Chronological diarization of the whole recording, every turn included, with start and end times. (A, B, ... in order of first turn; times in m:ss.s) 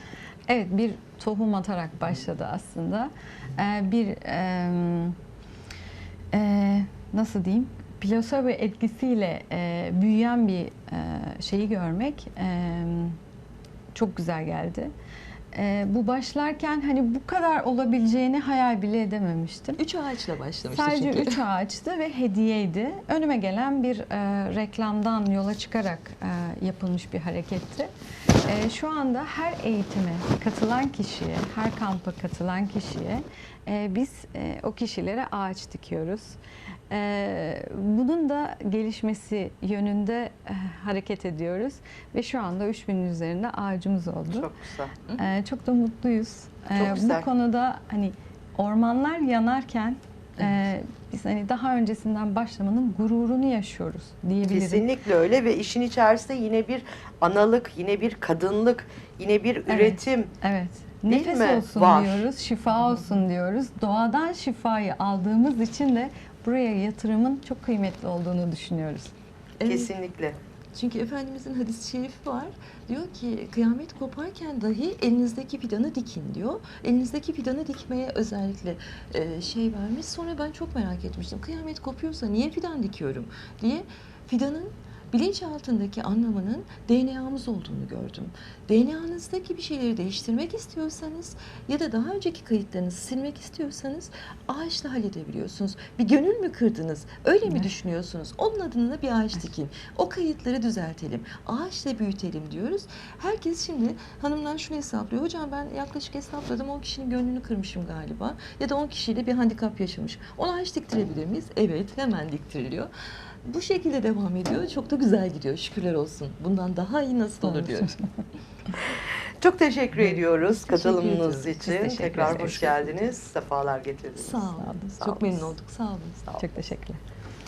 0:00.5-0:05.2 A
0:06.3-0:13.2 A
0:13.9-0:14.9 A
0:15.5-0:19.8 A
0:19.8-0:21.4 B
0:20.6-0:27.9 A
0:28.4-0:36.4 A
0:36.9-0:44.5 A
0:44.3-0:44.9 C
0:45.1-0:54.8 A
0:46.7-0:47.3 C
0:54.5-1:00.3 C
0:59.7-1:09.1 A
1:01.1-1:02.3 C
1:09.6-1:09.9 B
1:09.6-1:10.4 C
1:10.7-1:52.9 B
1:53.4-1:57.9 B
1:57.4-1:57.9 A
1:59.0-2:05.4 C
2:00.7-2:02.7 B
2:01.6-2:02.9 A
2:04.2-2:06.5 B
2:06.4-2:07.0 A